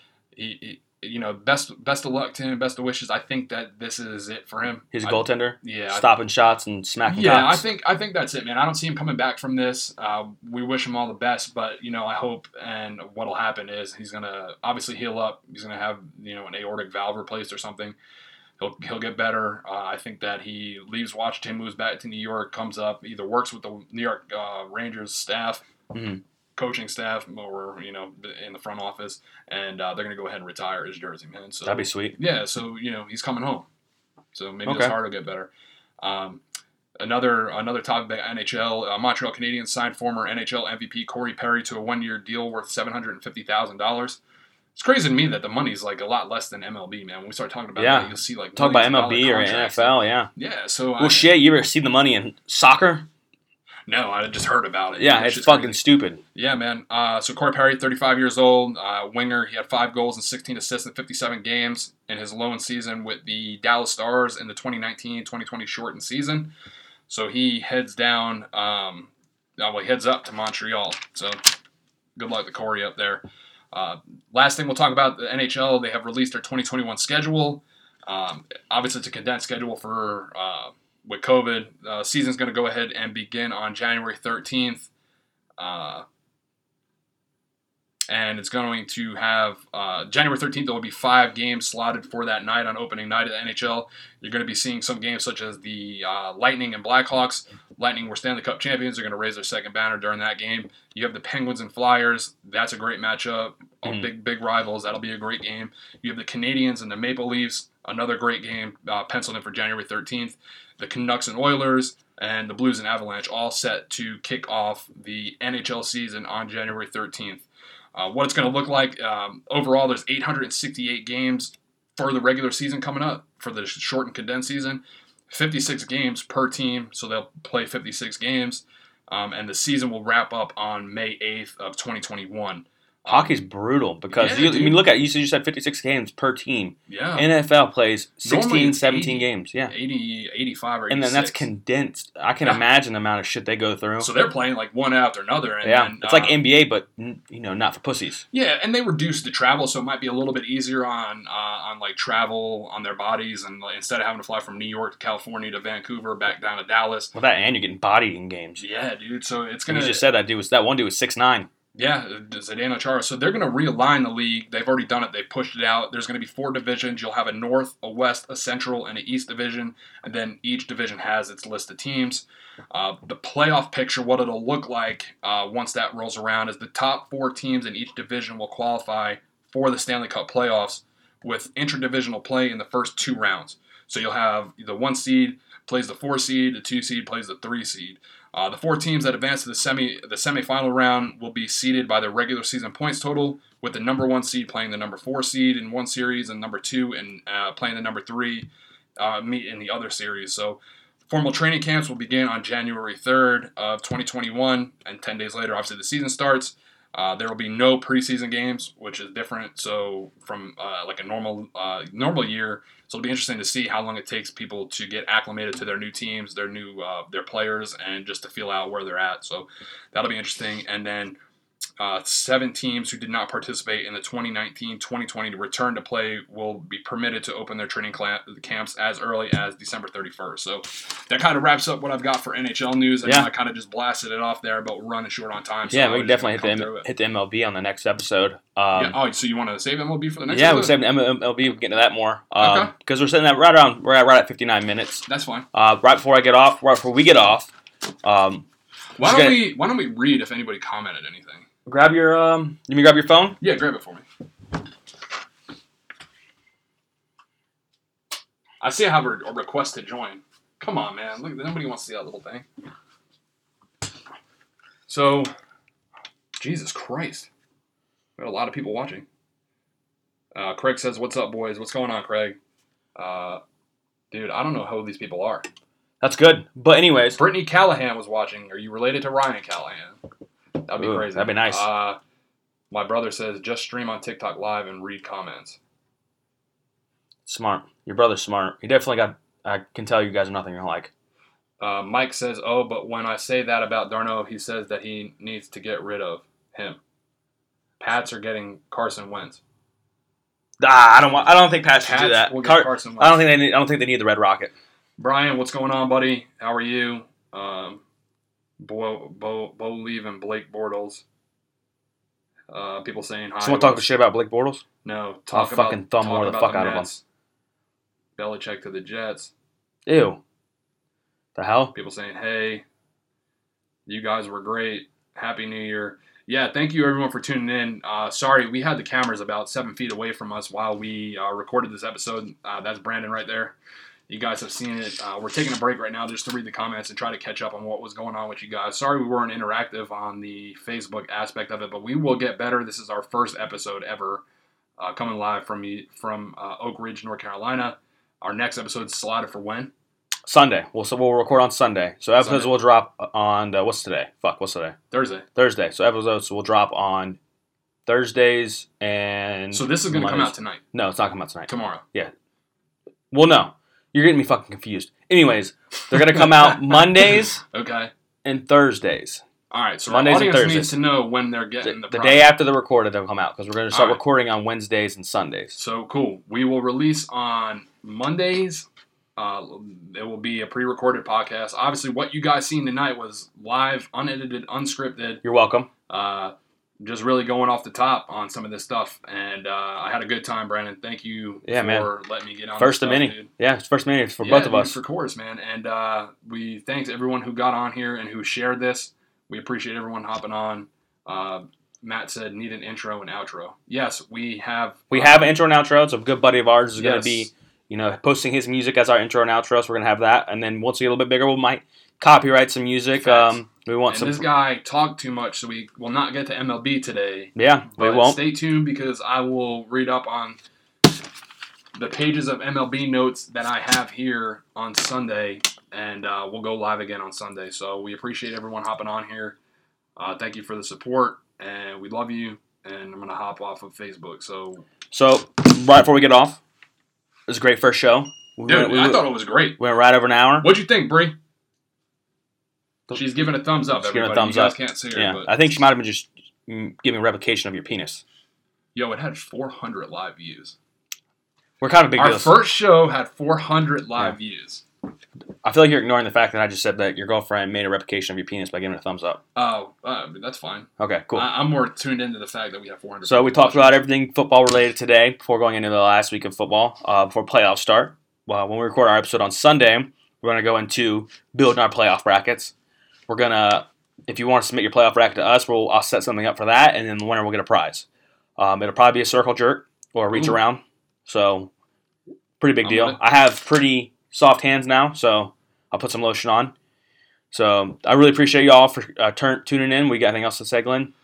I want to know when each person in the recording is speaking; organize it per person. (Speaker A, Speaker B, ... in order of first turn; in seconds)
Speaker A: 0.3-6.0, 7.1-17.9, 18.6-25.6, 26.6-33.7, 34.3-36.4, 37.0-44.2, 44.7-51.3, 53.9-55.8, 56.3-66.5, 67.1-71.4, 72.2-84.9, 85.6-86.0, 88.1-133.3, 134.1-134.8, 136.9-137.3, 138.2-141.5, 144.0-146.4, 148.3-157.1, 158.6-160.0, 161.7-221.2, 221.8-236.9, 238.7-240.8, 242.4-242.7, 245.1-245.5, 249.0-251.4, 253.4-254.0, 258.6-262.4, 264.9-265.3, 266.4-267.3, 268.2-269.1, 270.3-272.4, 272.9-273.4, 274.1-275.5, 277.1-280.0, 280.7-282.0, 282.7-285.6, 291.6-296.8, 297.8-299.4, 301.8-303.2, 305.0-307.8, 308.6-311.0, 312.5-313.9, 314.8-317.0, 318.2-319.3, 321.7-322.6, 323.9-333.6, 334.1-344.2, 344.8-349.7, 352.2-352.5, 354.9-355.2, 359.5-360.6, 361.5-361.8, 367.5-367.9, 369.5-372.4, 373.7-374.0, 375.5-385.2, 385.9-393.3, 394.2-405.3, 406.8-407.3, 413.0-420.4, 421.8-429.4, 430.0-434.6, 438.5-439.6, 440.4-441.1, 442.9-445.3, 448.7-450.6, 451.9-454.6, 459.3-463.8, 482.6-483.0
Speaker B: 4.9-7.6, 25.9-26.2, 31.6-32.1, 34.6-35.0, 47.8-50.3, 51.0-53.1, 55.0-56.2, 133.1-139.7, 140.9-144.1, 145.6-148.2, 157.1-158.6, 159.7-161.5, 233.0-233.3, 235.7-238.9, 240.3-247.5, 248.0-248.4, 249.0-249.4, 251.7-253.4, 276.0-277.2, 280.8-281.7, 287.3-290.9, 300.6-304.5, 313.4-314.6, 315.3-316.9, 319.9-320.2, 321.4-321.7, 350.2-354.8, 355.4-357.2, 357.9-362.1, 363.1-367.4, 368.2-369.2, 369.9-370.8, 371.6-375.5, 385.2-385.7, 391.4-391.9, 392.6-394.8, 404.9-414.3, 417.3-418.2, 434.9-436.4, 437.3-440.5, 442.9-448.0, 451.6-452.4, 455.4-459.2, 460.8-461.3, 463.1-472.5, 473.1-477.9, 478.4-481.5, 482.4-486.5, 487.3-490.9